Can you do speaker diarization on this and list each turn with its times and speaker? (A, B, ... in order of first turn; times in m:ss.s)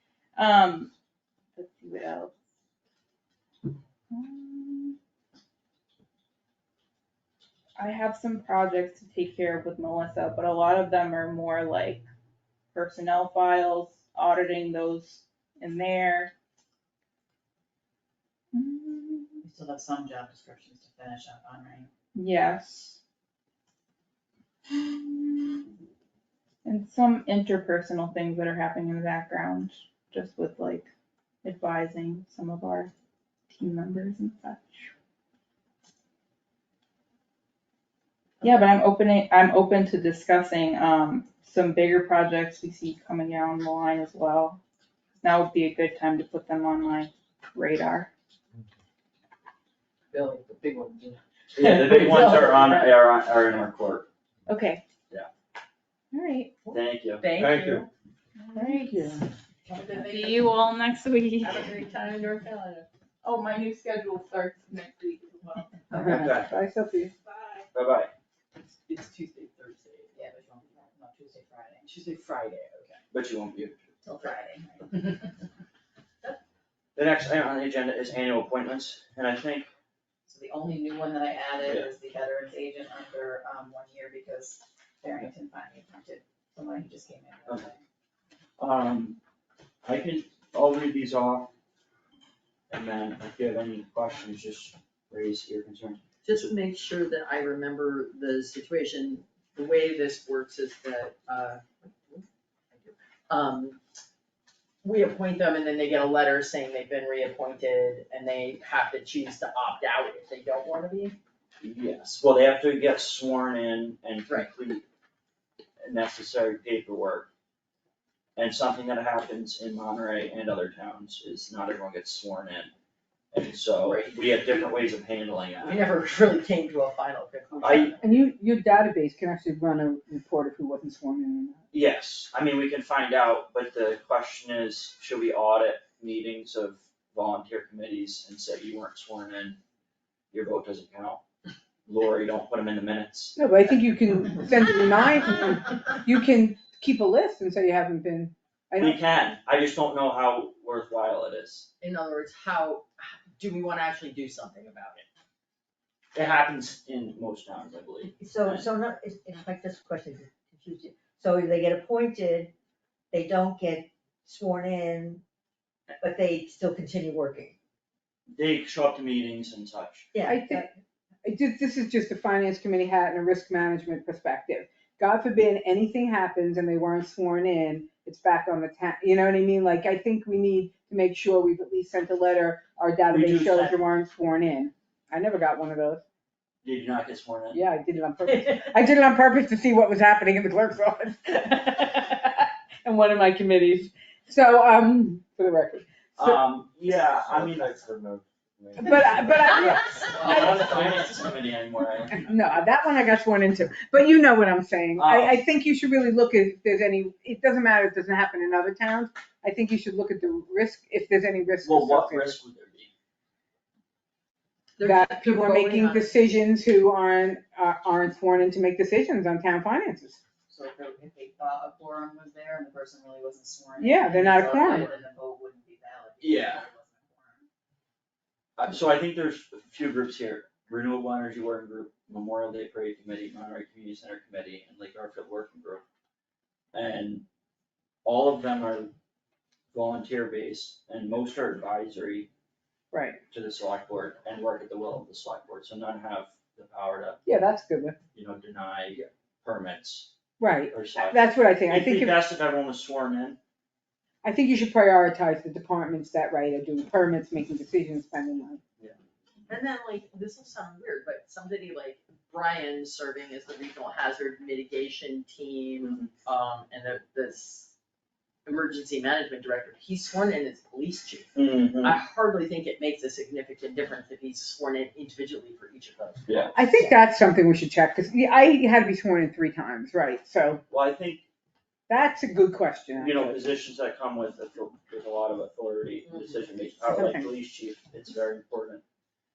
0:00.4-0:00.9 A
0:01.6-0:02.3 A
0:04.1-0:05.0 A
0:07.8-0:12.0 A
0:12.7-0:16.3 A
0:18.5-0:19.4 A
0:19.4-0:21.9 B
0:22.1-0:23.0 A
0:24.7-0:25.6 A
0:26.6-0:30.9 A
0:31.4-0:32.9 A
0:33.5-0:34.9 A
0:38.4-0:44.6 A
0:45.2-0:48.1 A
0:50.1-0:52.9 C
0:51.5-0:54.1 D
0:54.5-0:54.8 A
0:56.1-0:56.5 A
0:56.6-0:57.9 C
0:56.7-0:57.8 D
0:58.4-0:59.2 A
0:58.5-0:59.2 E
0:59.6-1:00.6 C
1:00.0-1:01.6 A
1:01.4-1:02.9 C
1:03.2-1:05.7 A
1:05.9-1:07.1 E
1:06.1-1:06.5 D
1:07.3-1:07.6 A
1:07.7-1:08.1 D
1:08.9-1:10.1 C
1:10.1-1:11.9 B
1:11.8-1:13.0 C
1:13.1-1:13.9 D
1:14.0-1:15.3 B
1:17.0-1:19.7 D
1:20.2-1:27.8 B
1:21.6-1:21.9 D
1:28.6-1:29.2 D
1:29.8-1:31.5 D
1:32.7-1:36.0 D
1:36.2-1:43.8 C
1:44.8-1:51.2 C
1:51.6-1:54.8 D
1:55.8-1:57.3 D
1:58.4-2:02.7 D
2:03.3-2:05.8 D
2:03.8-2:04.9 C
2:05.6-2:08.0 C
2:07.6-2:07.9 D
2:08.0-2:11.6 E
2:11.7-2:19.6 D
2:20.3-2:21.2 D
2:21.9-2:23.4 D
2:23.4-2:29.0 E
2:28.8-2:31.7 D
2:31.8-2:35.0 C
2:36.1-2:38.6 D
2:38.2-2:42.5 F
2:43.1-2:45.2 F
2:45.9-2:47.5 F
2:48.3-2:50.1 D
2:50.1-2:50.7 F
2:50.2-2:50.7 E
2:51.2-3:06.0 E
3:03.1-3:03.7 D
3:06.6-3:07.6 D
3:07.5-3:16.4 E
3:16.2-3:17.8 D
3:16.8-3:19.5 G
3:18.8-3:20.6 E
3:19.7-3:21.0 C
3:20.2-3:22.3 D
3:22.1-3:32.4 E
3:25.0-3:25.4 D
3:31.6-3:32.9 D
3:34.8-3:36.2 C
3:34.8-3:40.2 E
3:40.5-3:47.4 B
3:43.8-3:44.9 E
3:44.4-3:44.8 C
3:46.2-3:46.6 D
3:48.6-3:55.8 D
3:56.7-3:57.2 D
3:58.0-3:58.9 D
3:59.7-4:02.3 D
4:02.9-4:03.2 E
4:03.3-4:07.2 D
4:07.2-4:08.0 E
4:08.1-4:10.1 D
4:10.4-4:12.2 E
4:10.7-4:13.4 D
4:14.2-4:18.6 E
4:19.5-4:27.7 C
4:28.4-4:36.2 C
4:31.4-4:32.0 D
4:36.3-4:36.6 D
4:36.5-4:40.6 E
4:40.7-4:41.2 D
4:41.9-4:43.4 E
4:43.0-4:48.8 D
4:46.9-4:47.3 E